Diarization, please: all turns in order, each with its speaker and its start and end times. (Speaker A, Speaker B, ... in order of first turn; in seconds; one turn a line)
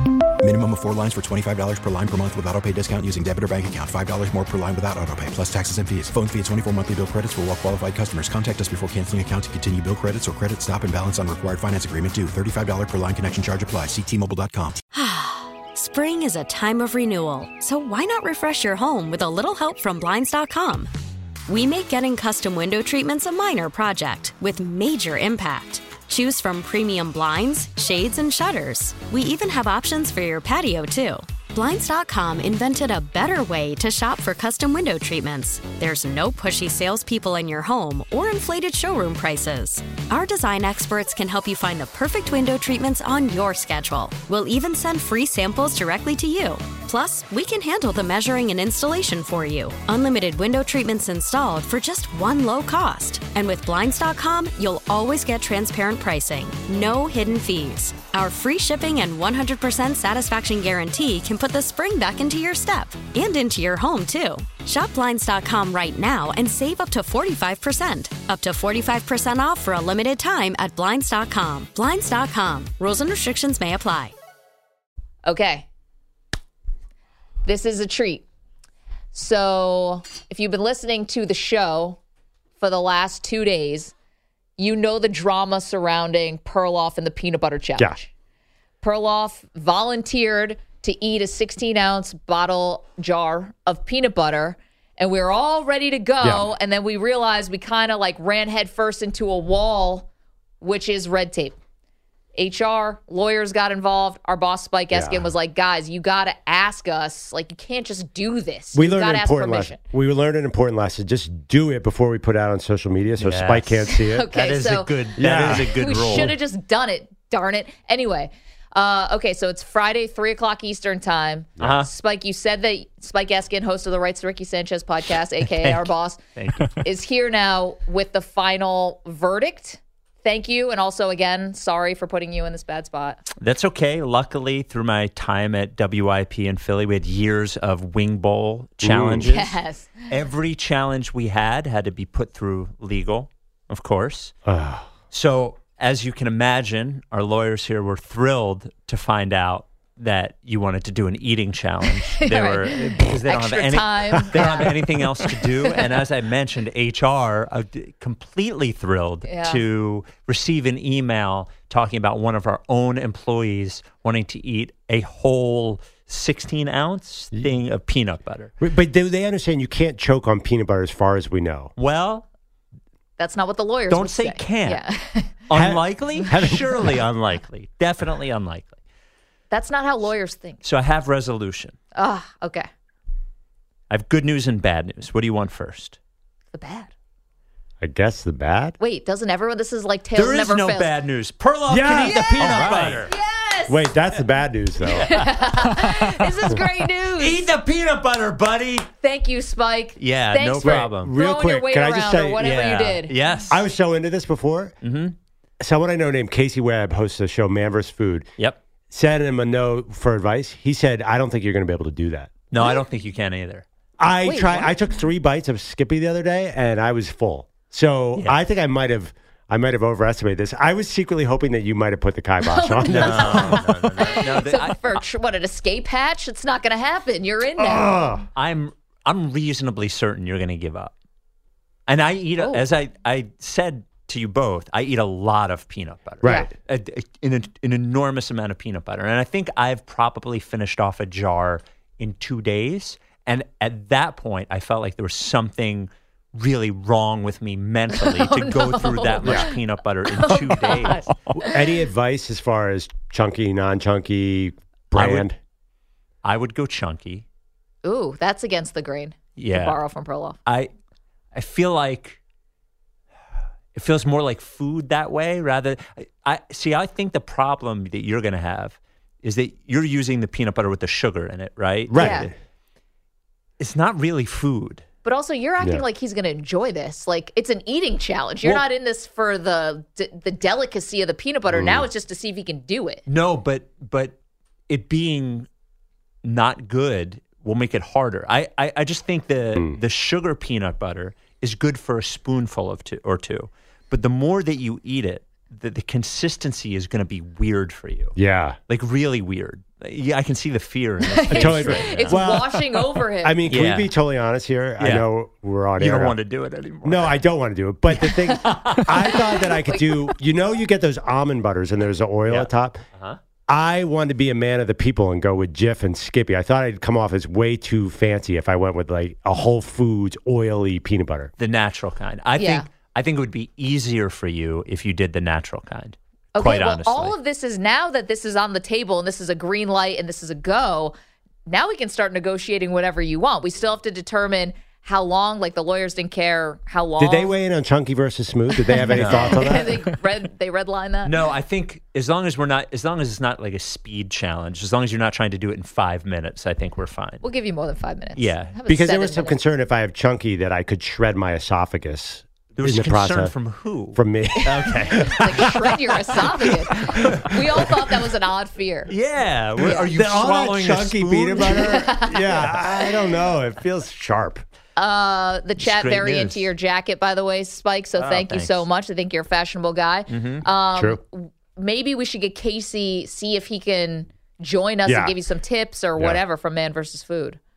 Speaker A: 0.4-14.8
Speaker B: 14.9-20.9
Speaker B: 21.5-74.1
Speaker C: 75.2-75.7
Speaker C: 77.4-78.2
Speaker C: 79.1-82.0
Speaker C: 82.6-83.9
Speaker C: 84.6-88.1
Speaker C: 88.8-100.1
Speaker D: 96.2-96.5
Speaker C: 100.6-101.5
Speaker C: 102.3-109.8
Speaker D: 104.9-105.3
Speaker D: 108.7-114.3
Speaker E: 113.2-116.3
Speaker C: 113.9-126.2
Speaker D: 115.2-116.3
Speaker E: 121.6-121.9
Speaker E: 125.4-126.8
Speaker C: 126.8-133.2
Speaker E: 133.4-139.6
Speaker D: 138.8-139.3
Speaker C: 139.3-140.1
Speaker E: 140.1-144.3
Speaker D: 144.4-144.9
Speaker E: 145.1-168.5
Speaker C: 152.1-155.8
Speaker D: 154.3-154.6
Speaker C: 159.3-159.6
Speaker D: 168.6-171.7
Speaker E: 171.8-172.2
Speaker C: 173.2-175.4
Speaker E: 173.9-174.8
Speaker E: 175.5-178.8
Speaker D: 175.5-177.0
Speaker C: 179.5-180.6
Speaker E: 180.6-181.8
Speaker C: 181.9-182.7
Speaker E: 183.9-186.0
Speaker C: 186.5-186.9
Speaker D: 187.8-188.8
Speaker C: 188.8-190.9
Speaker E: 190.1-193.1
Speaker D: 191.7-193.0
Speaker C: 192.1-193.9
Speaker D: 193.7-195.2
Speaker C: 194.9-197.4
Speaker E: 195.2-196.5
Speaker E: 197.2-198.9
Speaker C: 199.0-203.1
Speaker E: 200.0-201.1
Speaker D: 200.6-202.4
Speaker E: 202.4-203.6
Speaker D: 203.5-204.8
Speaker E: 204.8-205.2
Speaker D: 205.6-208.3
Speaker D: 208.9-212.3
Speaker E: 212.5-213.6
Speaker D: 214.0-223.8
Speaker C: 214.2-214.7
Speaker C: 222.4-228.1
Speaker E: 222.8-225.0
Speaker D: 227.6-228.2
Speaker E: 228.3-230.9
Speaker E: 231.9-251.1
Speaker C: 232.4-232.6
Speaker D: 236.2-236.5
Speaker C: 236.2-236.5
Speaker C: 247.9-249.6
Speaker C: 250.2-251.8
Speaker D: 251.3-255.3
Speaker E: 254.9-255.3
Speaker E: 256.2-257.2
Speaker C: 257.8-260.4
Speaker E: 259.4-259.8
Speaker E: 260.4-260.7
Speaker E: 261.3-262.2
Speaker E: 263.7-272.3
Speaker D: 271.9-272.3
Speaker C: 271.9-272.3
Speaker E: 273.6-274.8
Speaker C: 275.0-283.0
Speaker D: 281.5-281.9
Speaker E: 283.1-284.2
Speaker E: 284.7-285.5
Speaker E: 286.2-298.1
Speaker D: 298.1-298.6
Speaker E: 298.7-302.2
Speaker C: 301.1-303.4
Speaker D: 301.3-306.2
Speaker E: 303.5-303.9
Speaker E: 304.8-305.1
Speaker E: 305.8-307.2
Speaker D: 306.8-312.8
Speaker E: 307.9-308.9
Speaker C: 308.3-310.1
Speaker E: 312.3-313.2
Speaker D: 313.5-321.3
Speaker E: 321.4-327.2
Speaker C: 322.4-322.6
Speaker C: 326.3-330.9
Speaker C: 331.5-337.4
Speaker D: 337.0-339.8
Speaker C: 338.7-341.1
Speaker E: 338.9-339.5
Speaker E: 341.0-347.2
Speaker C: 347.2-349.4
Speaker E: 348.1-348.5
Speaker D: 348.7-353.3
Speaker E: 352.5-355.4
Speaker D: 353.9-357.1
Speaker C: 354.7-358.9
Speaker E: 358.9-361.9
Speaker D: 359.6-364.4
Speaker C: 361.4-363.0
Speaker C: 364.8-377.4
Speaker E: 365.6-366.5
Speaker E: 367.9-368.6
Speaker E: 370.1-370.4
Speaker D: 370.7-371.0
Speaker D: 374.9-375.1
Speaker D: 376.0-376.2